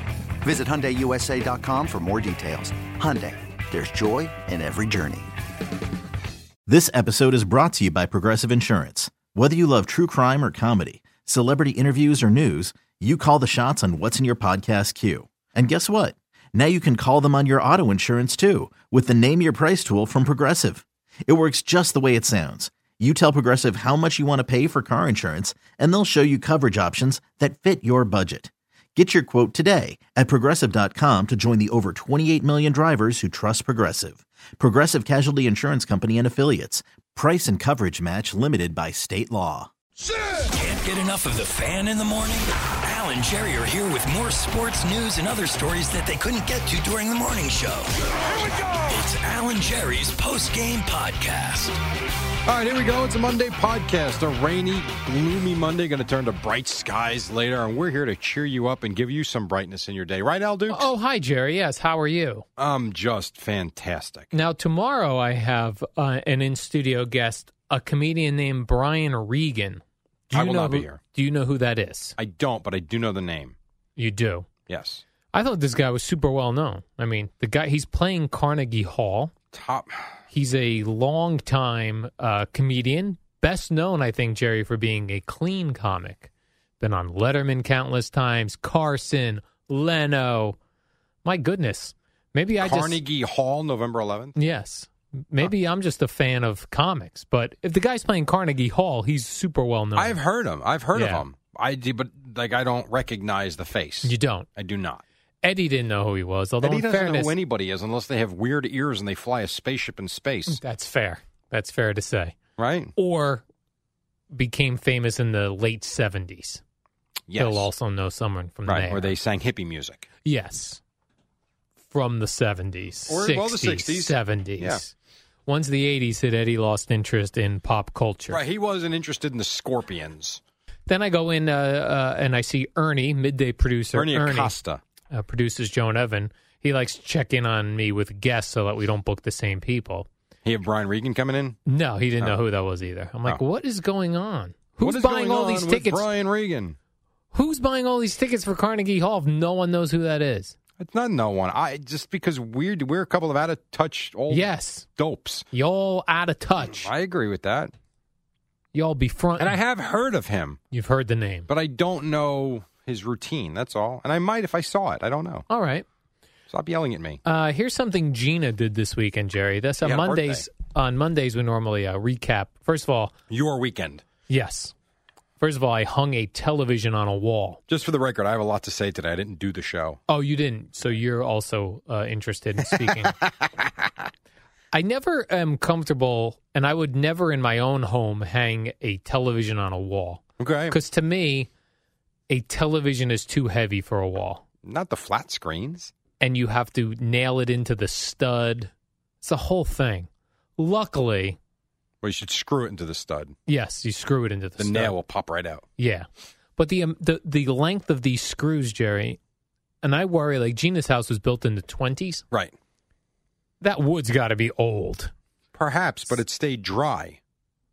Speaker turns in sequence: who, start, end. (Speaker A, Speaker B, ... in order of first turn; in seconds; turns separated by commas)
Speaker A: 0.4-5.3, Speaker B: 6.7-39.7, Speaker C: 40.5-51.8, Speaker D: 52.5-60.9, Speaker E: 60.7-62.4, Speaker D: 62.6-64.3, Speaker E: 64.3-72.2, Speaker D: 70.3-71.0, Speaker D: 72.2-73.5, Speaker E: 74.0-74.5, Speaker D: 74.7-75.0, Speaker E: 75.3-79.3, Speaker D: 79.5-80.1, Speaker E: 80.3-86.3, Speaker E: 86.8-90.6, Speaker E: 91.2-93.0, Speaker D: 92.6-94.4, Speaker E: 94.3-100.2, Speaker D: 100.0-105.0, Speaker E: 100.9-101.2, Speaker E: 104.0-104.5, Speaker E: 105.4-107.3, Speaker D: 106.6-110.6, Speaker E: 110.5-112.4, Speaker D: 112.6-112.9, Speaker E: 113.0-113.4, Speaker E: 114.3-116.6, Speaker D: 117.3-117.7, Speaker E: 117.3-119.1, Speaker D: 118.7-120.1, Speaker E: 120.2-120.8, Speaker E: 121.9-124.9, Speaker D: 123.1-124.8, Speaker E: 125.5-128.4, Speaker D: 128.3-130.4, Speaker E: 130.9-134.5, Speaker D: 133.9-134.8, Speaker E: 135.1-140.1, Speaker D: 140.4-141.6, Speaker E: 141.7-146.0, Speaker D: 144.8-146.8, Speaker E: 147.3-150.5, Speaker D: 150.8-155.4, Speaker E: 154.3-154.8, Speaker E: 155.5-156.9, Speaker D: 156.7-157.7, Speaker E: 158.7-159.6, Speaker D: 159.4-160.6, Speaker E: 160.7-161.5, Speaker D: 161.5-165.4, Speaker E: 165.5-165.8, Speaker D: 166.5-167.2, Speaker E: 167.2-173.1, Speaker D: 169.8-170.4, Speaker D: 173.3-174.0, Speaker E: 174.3-174.7, Speaker E: 175.4-177.6, Speaker D: 177.7-180.0, Speaker E: 180.1-183.1, Speaker D: 182.6-183.3, Speaker E: 184.7-191.5, Speaker D: 190.4-190.8, Speaker E: 192.3-194.4, Speaker D: 194.6-195.9, Speaker E: 196.2-201.4, Speaker D: 202.0-203.3, Speaker E: 203.5-204.9, Speaker D: 204.6-205.6, Speaker E: 205.8-209.2, Speaker E: 209.8-212.2, Speaker E: 213.6-215.1, Speaker D: 215.5-217.2